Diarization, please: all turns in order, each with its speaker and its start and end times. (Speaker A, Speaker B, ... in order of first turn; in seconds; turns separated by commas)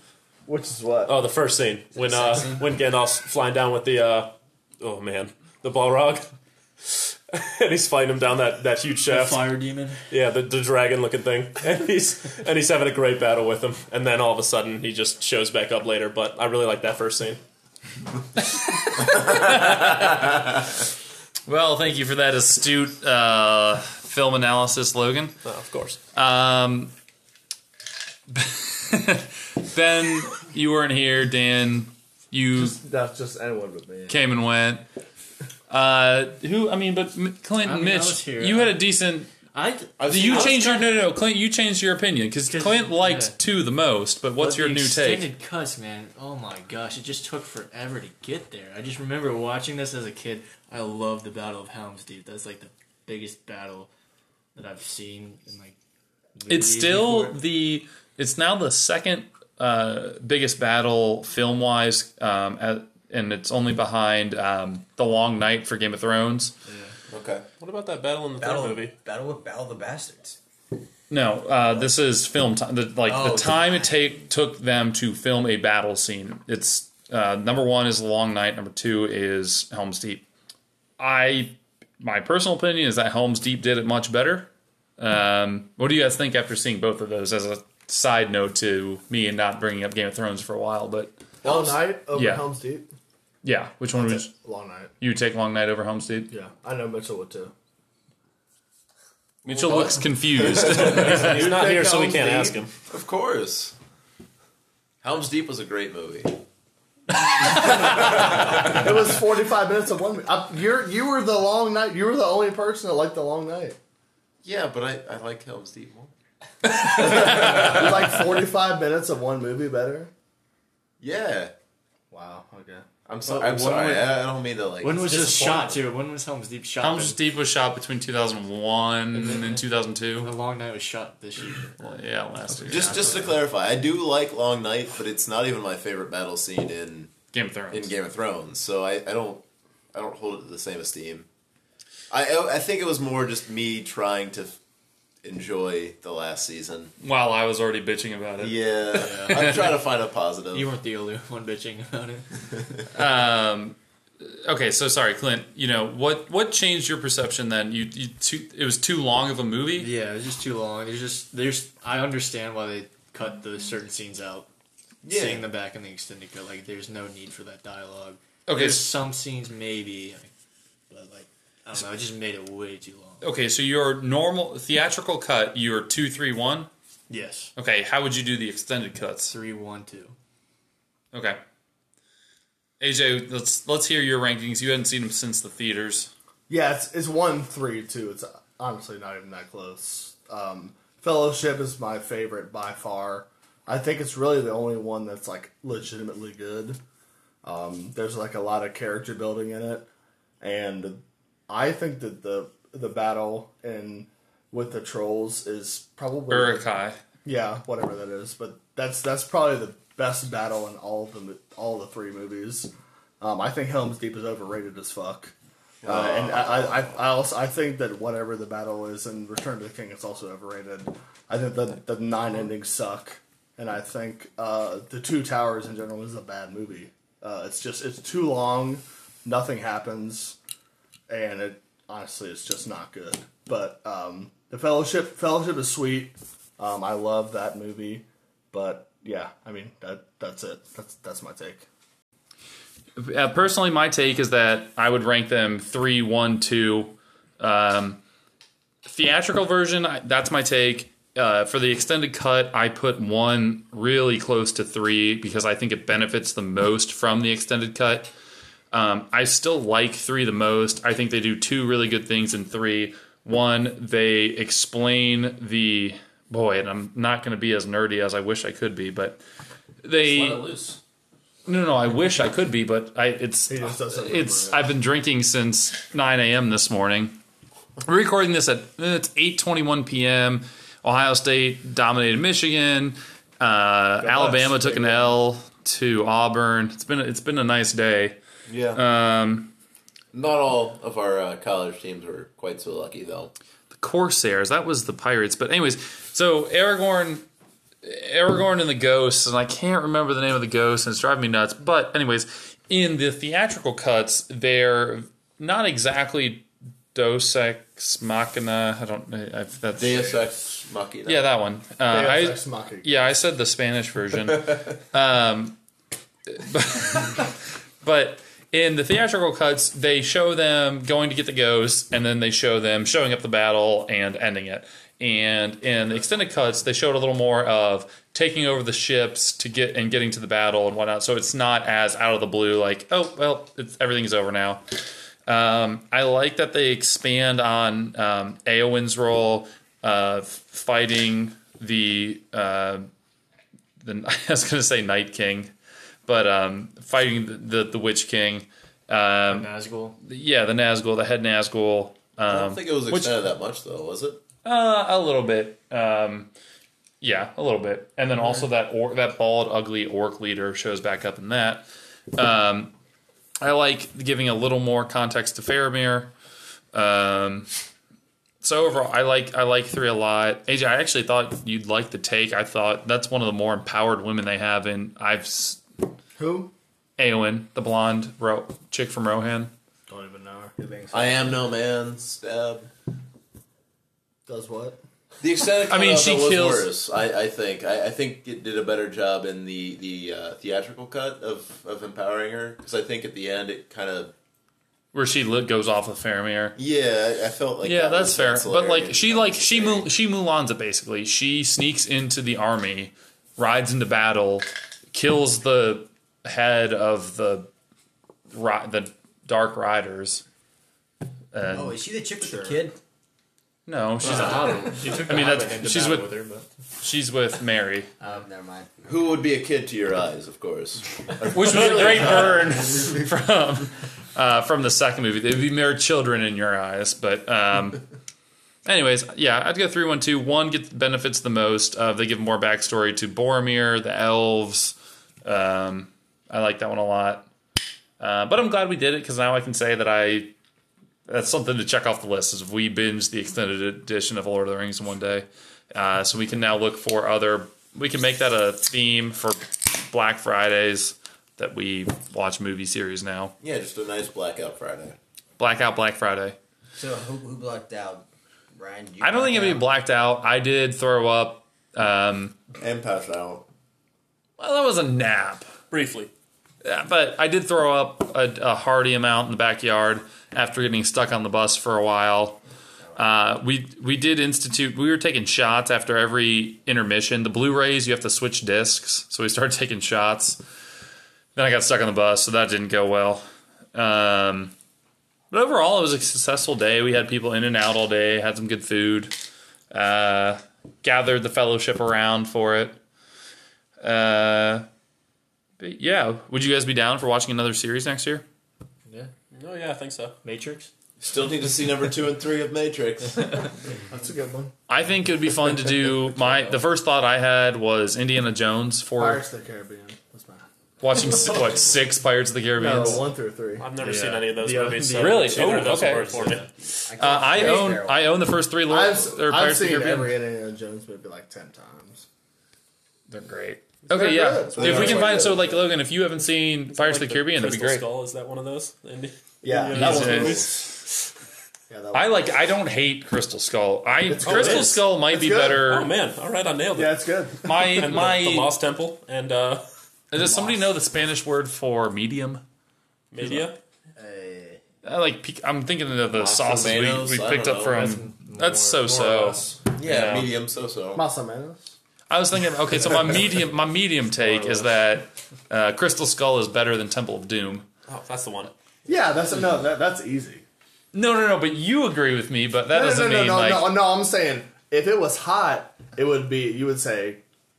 Speaker A: 0.5-1.2, Speaker B: 1.1-6.3, Speaker C: 2.3-2.6, Speaker B: 6.8-17.4, Speaker C: 9.1-10.0, Speaker D: 18.5-20.2, Speaker D: 21.5-25.4, Speaker B: 25.4-26.0, Speaker D: 26.1-26.9, Speaker D: 28.3-32.8, Speaker A: 32.5-34.2, Speaker D: 34.1-34.8, Speaker D: 35.7-39.3, Speaker C: 37.6-38.8, Speaker C: 39.5-41.0, Speaker E: 40.0-40.7, Speaker D: 40.0-45.3, Speaker C: 42.5-43.4, Speaker C: 44.4-53.9, Speaker C: 54.5-55.7, Speaker C: 56.4-57.4, Speaker D: 56.5-66.5, Speaker C: 66.7-66.9, Speaker E: 67.1-67.4, Speaker B: 67.6-68.9, Speaker F: 68.4-70.4, Speaker D: 71.1-80.2, Speaker F: 73.0-74.2, Speaker D: 81.0-91.1, Speaker A: 91.4-92.9, Speaker E: 91.4-91.8, Speaker D: 92.1-92.4, Speaker D: 93.4-94.3, Speaker A: 93.9-94.9, Speaker D: 95.0-96.3, Speaker A: 96.3-97.5, Speaker D: 99.5-101.5, Speaker B: 100.5-102.7, Speaker A: 101.0-102.6, Speaker E: 102.9-103.7, Speaker E: 105.0-106.4, Speaker E: 107.6-108.6, Speaker A: 108.5-113.8, Speaker E: 114.4-116.1, Speaker A: 116.7-120.1, Speaker D: 117.0-117.5, Speaker E: 117.5-117.9, Speaker E: 121.0-121.5, Speaker A: 122.1-122.8, Speaker E: 123.1-125.6, Speaker C: 123.2-124.1, Speaker C: 124.8-127.2, Speaker D: 126.8-130.3, Speaker C: 129.1-132.0, Speaker D: 131.8-133.3, Speaker C: 132.7-133.4, Speaker E: 132.7-137.1, Speaker D: 137.3-137.9, Speaker E: 137.7-141.2, Speaker E: 142.1-144.6, Speaker E: 145.2-146.9, Speaker D: 147.0-149.7, Speaker E: 148.4-150.7, Speaker C: 148.9-149.7, Speaker C: 150.5-152.3, Speaker D: 152.9-159.9, Speaker C: 159.8-164.5, Speaker E: 165.0-165.4, Speaker C: 165.1-170.3, Speaker D: 168.5-168.9, Speaker C: 170.9-173.2, Speaker D: 173.2-176.7, Speaker C: 177.1-177.5, Speaker D: 177.6-179.3, Speaker C: 179.3-180.1, Speaker D: 181.1-181.4, Speaker D: 182.8-186.1, Speaker A: 186.5-196.8, Speaker A: 197.4-199.9, Speaker A: 200.4-206.7, Speaker D: 206.3-207.0, Speaker A: 207.2-215.3, Speaker E: 215.8-217.0, Speaker A: 215.8-230.3, Speaker A: 231.1-241.6, Speaker D: 243.0-248.0, Speaker D: 248.8-258.1, Speaker D: 258.7-269.2, Speaker D: 269.8-270.5, Speaker E: 270.0-270.8, Speaker D: 271.4-277.2, Speaker A: 273.5-274.8, Speaker D: 277.8-288.2, Speaker A: 284.0-285.1, Speaker E: 288.5-288.8, Speaker D: 288.7-289.5, Speaker E: 290.1-293.3, Speaker D: 293.7-297.2, Speaker D: 297.8-310.2, Speaker E: 309.8-311.2, Speaker D: 311.1-315.6, Speaker A: 311.9-313.0, Speaker D: 316.3-317.3, Speaker D: 317.8-334.6, Speaker D: 335.2-342.9, Speaker D: 343.8-345.5, Speaker D: 346.1-349.5, Speaker C: 349.3-349.9, Speaker D: 350.0-353.2, Speaker E: 352.3-354.2, Speaker D: 354.4-356.3, Speaker D: 357.0-362.7, Speaker D: 363.4-366.1, Speaker D: 366.7-367.5, Speaker D: 368.4-375.6, Speaker A: 376.2-376.5, Speaker D: 377.0-379.5, Speaker A: 379.9-381.1, Speaker E: 380.9-382.7, Speaker A: 384.3-384.8, Speaker E: 385.2-394.1, Speaker D: 385.7-386.7, Speaker D: 394.9-396.6, Speaker E: 396.6-399.9, Speaker D: 397.6-407.5, Speaker D: 408.3-410.2, Speaker D: 411.3-411.8, Speaker F: 411.5-412.8, Speaker D: 413.6-416.2, Speaker C: 414.0-416.5, Speaker D: 416.8-417.9, Speaker F: 418.0-418.7, Speaker E: 418.8-422.5, Speaker D: 421.3-427.8, Speaker D: 428.6-437.3, Speaker D: 438.0-440.3, Speaker D: 441.1-453.3, Speaker E: 453.4-455.0, Speaker D: 455.4-456.4, Speaker F: 456.7-459.7, Speaker D: 459.0-462.3, Speaker E: 462.6-463.4, Speaker D: 464.4-465.5, Speaker B: 465.7-466.1, Speaker D: 466.6-472.4, Speaker D: 472.9-480.4, Speaker D: 481.3-484.5, Speaker D: 485.3-489.1, Speaker D: 489.7-492.8, Speaker D: 493.8-494.6, Speaker D: 495.6-498.2, Speaker B: 499.3-500.1, Speaker C: 500.2-500.7, Speaker E: 501.0-503.5, Speaker A: 503.9-504.5, Speaker D: 504.7-509.2, Speaker A: 509.0-510.4, Speaker D: 510.8-513.1, Speaker A: 512.6-513.7, Speaker B: 513.6-516.4, Speaker C: 513.7-516.5, Speaker D: 515.0-516.2, Speaker F: 516.7-518.2, Speaker D: 517.0-520.1, Speaker A: 518.7-522.0, Speaker D: 523.1-527.8, Speaker A: 523.9-525.6, Speaker E: 524.5-525.5, Speaker B: 526.7-530.7, Speaker A: 529.4-530.5, Speaker D: 529.7-530.4, Speaker A: 531.7-532.4, Speaker D: 531.9-535.9, Speaker A: 534.0-535.7, Speaker B: 534.2-534.8, Speaker B: 535.6-537.0, Speaker A: 536.7-537.6, Speaker D: 537.4-538.5, Speaker B: 537.7-539.6, Speaker D: 540.1-542.4, Speaker B: 543.1-543.6, Speaker D: 543.2-543.5, Speaker F: 544.0-544.6, Speaker D: 544.8-550.3, Speaker E: 546.1-547.9, Speaker C: 547.7-549.6, Speaker E: 549.7-551.0, Speaker A: 550.9-551.7, Speaker D: 552.1-557.6, Speaker C: 554.2-554.7, Speaker B: 557.9-558.5, Speaker A: 558.9-560.4, Speaker D: 560.9-563.7, Speaker A: 562.7-567.2